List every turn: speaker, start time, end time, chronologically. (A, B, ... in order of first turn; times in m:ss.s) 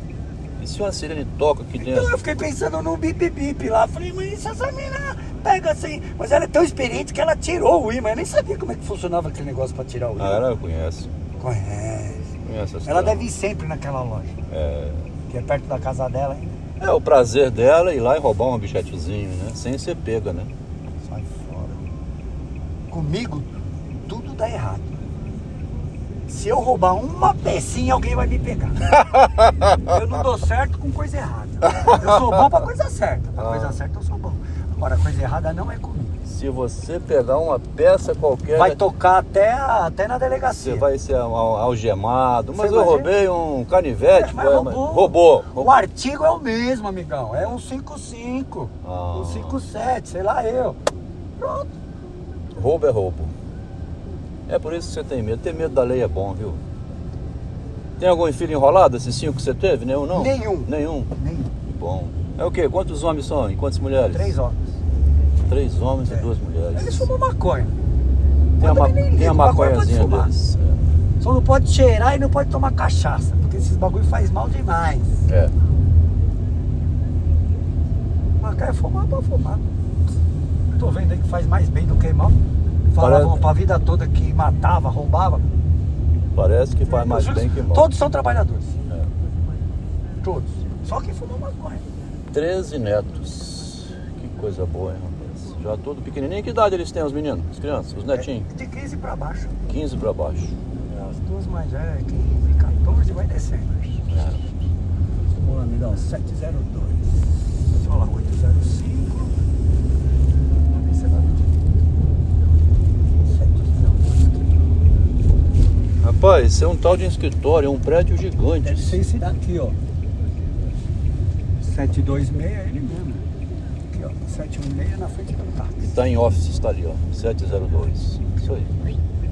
0:00.6-0:02.2 A
0:01.8-0:10.4 B
0:10.2-0:11.1 A
0:11.4-0:12.3 B
0:12.4-0:13.3 A
0:12.8-0:14.3 B
0:14.5-0:15.1 A
0:15.3-0:16.6 B
0:16.8-0:20.5 A
0:21.0-0:21.8 B
0:22.9-0:23.5 B
0:24.1-0:25.0 B
0:26.3-0:29.0 B
0:29.2-0:29.7 A
0:29.7-0:36.2 B
0:31.8-0:32.2 A
0:33.4-0:33.8 A
0:36.2-0:38.8 A
0:38.5-0:40.9 B
0:40.5-0:45.7 A
0:42.5-0:43.1 B
0:44.1-0:50.8 B
0:48.8-0:49.6 A
0:51.4-0:51.7 B
0:52.5-0:53.3 A
0:54.5-0:56.6 A
0:58.0-1:01.1 A
1:00.1-1:01.5 B
1:01.7-1:04.3 A
1:04.1-1:04.6 B
1:05.5-1:07.1 A
1:06.1-1:07.7 B
1:08.6-1:10.3 B
1:08.6-1:10.8 A
1:11.2-1:15.2 B
1:15.3-1:15.5 A
1:18.4-1:19.6 B
1:20.8-1:25.4 B
1:23.0-1:23.5 A
1:26.3-1:27.9 A
1:26.8-1:28.8 B
1:30.2-1:31.8 B
1:32.3-1:38.5 A
1:38.1-1:39.6 B
1:39.7-1:40.5 A
1:40.8-1:44.0 B
1:44.1-1:44.4 A
1:45.4-1:49.3 B
1:50.7-1:51.6 B
1:53.2-1:54.5 B
1:56.0-1:59.0 A
1:58.6-1:59.8 B
2:01.6-2:03.2 B
2:03.9-2:05.9 B
2:05.8-2:08.7 A